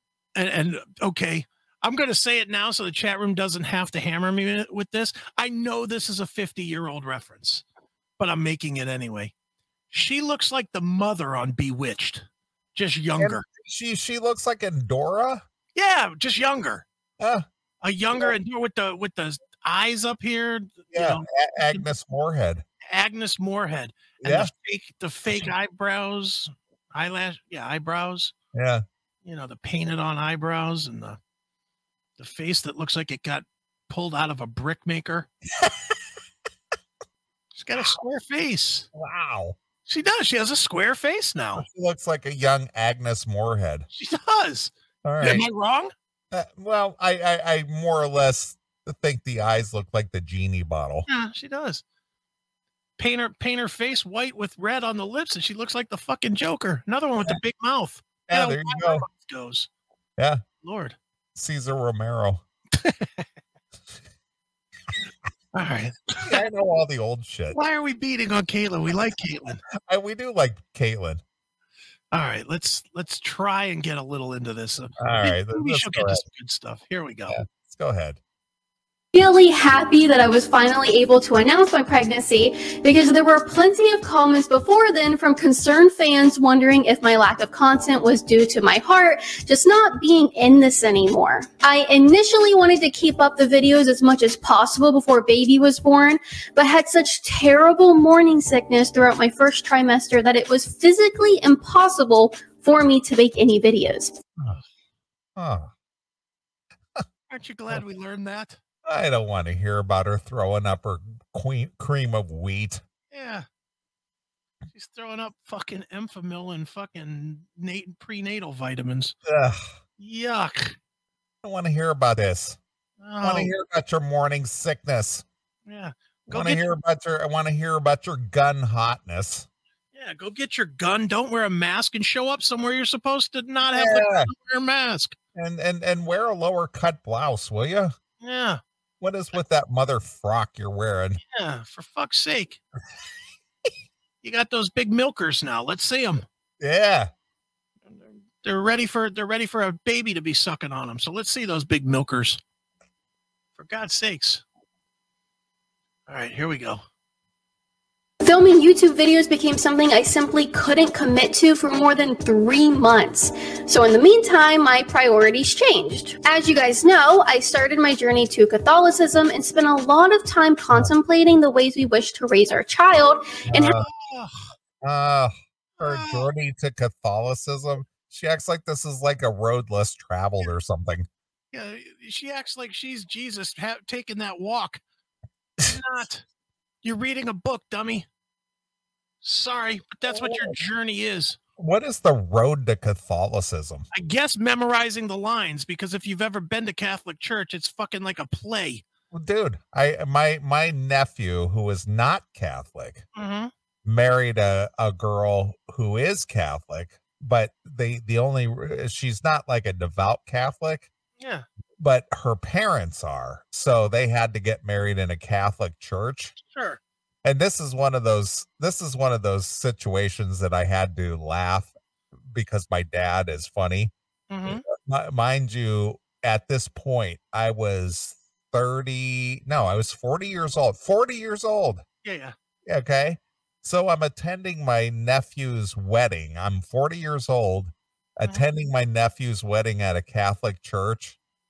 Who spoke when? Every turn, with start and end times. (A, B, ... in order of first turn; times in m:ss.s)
0:00.4-0:07.6 A
0:08.2-0:09.3 A
0:09.9-0:12.2 A
0:12.7-0:13.4 A
0:13.2-0:15.4 B
0:15.7-0:16.8 A
0:17.2-0:17.4 B
0:17.8-0:21.9 A
0:20.9-0:22.6 B
0:22.9-0:28.3 A
0:24.2-0:24.5 B
0:28.5-0:28.8 B
0:29.2-0:31.2 A
0:32.2-0:35.3 A
0:35.6-0:36.0 B
0:37.5-0:38.9 A
0:38.9-0:39.6 B
0:39.9-0:41.6 A
0:41.6-0:43.8 B
0:43.9-0:45.9 A
0:45.0-0:45.4 B
0:46.3-0:51.1 B
0:51.1-0:51.8 A
0:53.0-0:59.7 A
0:58.3-0:59.0 B
1:00.6-1:01.0 A
1:01.3-1:02.4 B
1:02.7-1:03.2 A
1:05.5-1:06.4 A
1:06.2-1:07.6 B
1:07.5-1:09.6 A
1:09.8-1:11.2 B
1:12.1-1:17.4 A
1:15.0-1:16.2 B
1:17.3-1:18.2 B
1:19.1-1:44.2 C
1:45.4-1:45.7 B
1:47.3-1:48.6 A
1:48.8-1:52.8 B
1:53.1-1:53.4 A
1:54.7-1:59.1 A
1:59.2-1:59.7 B
2:00.0-2:00.8 A
2:01.4-2:02.6 B
2:03.0-2:03.5 A
2:03.2-2:05.2 B
2:05.6-2:06.6 A
2:06.3-2:09.5 B
2:09.9-2:15.1 A
2:13.7-2:14.3 B
2:15.3-2:17.9 B
2:18.2-2:18.6 A
2:19.0-2:21.2 B
2:21.3-2:22.6 A
2:24.2-2:26.2 A
2:26.6-2:27.1 B
2:27.9-2:32.4 A
2:33.6-2:34.4 A
2:36.1-2:36.8 A
2:38.2-2:53.8 C
2:53.5-2:53.9 B
2:53.6-2:54.4 A
2:54.8-3:01.0 B
2:55.8-2:56.3 A
3:01.5-3:04.8 A
3:05.6-3:06.2 A
3:06.8-3:08.0 A
3:09.2-3:11.4 A
3:10.1-3:10.6 B
3:11.6-3:13.8 B
3:13.9-3:18.8 A
3:19.1-3:23.0 B
3:23.2-3:23.5 A
3:23.8-3:30.9 B
3:31.2-3:31.4 A
3:31.8-3:36.3 B
3:36.4-3:36.8 A
3:37.2-3:41.7 B
3:42.3-3:43.9 B
3:44.3-3:44.6 A
3:44.4-3:51.8 B
3:52.0-3:52.3 A
3:52.6-4:01.2 B